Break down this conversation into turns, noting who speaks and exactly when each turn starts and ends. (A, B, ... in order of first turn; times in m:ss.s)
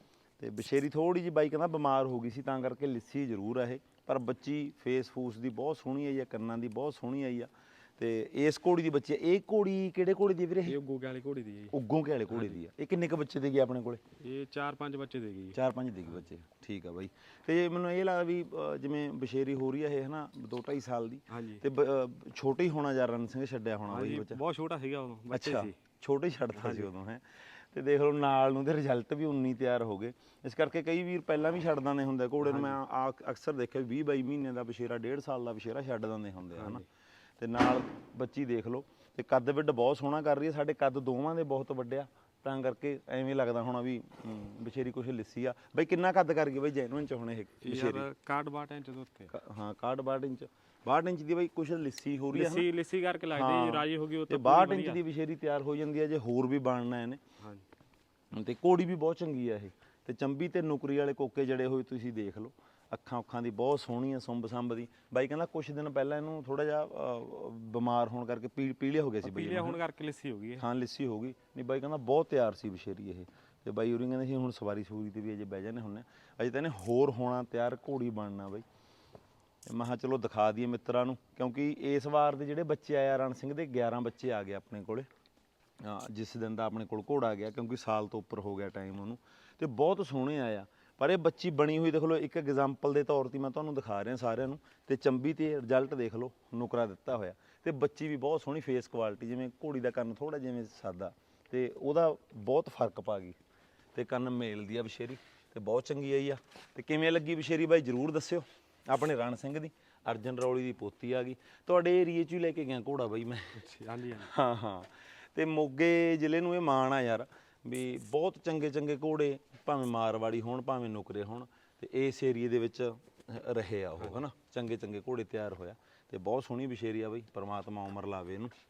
0:00.4-0:10.8 A
0:10.6-0:11.7 B
0:11.7-0:14.0 A
0:12.3-0:12.6 B
0:14.2-0:15.6 B
0:15.5-0:24.4 A
0:21.3-0:21.6 B
0:23.9-0:25.8 B
0:25.3-0:36.8 A
0:26.6-0:26.9 B
0:32.4-0:32.8 B
0:36.6-0:36.8 B
0:37.4-0:48.1 A
0:47.6-0:49.3 B
0:49.3-0:52.7 A
0:52.3-0:55.0 B
0:53.3-0:57.2 A
0:57.4-0:57.6 B
0:58.3-1:09.8 A
1:09.2-1:10.6 B
1:10.6-1:18.6 A
1:19.6-1:25.1 A
1:25.8-1:43.4 A
1:43.9-2:08.5 A
1:53.6-1:54.3 B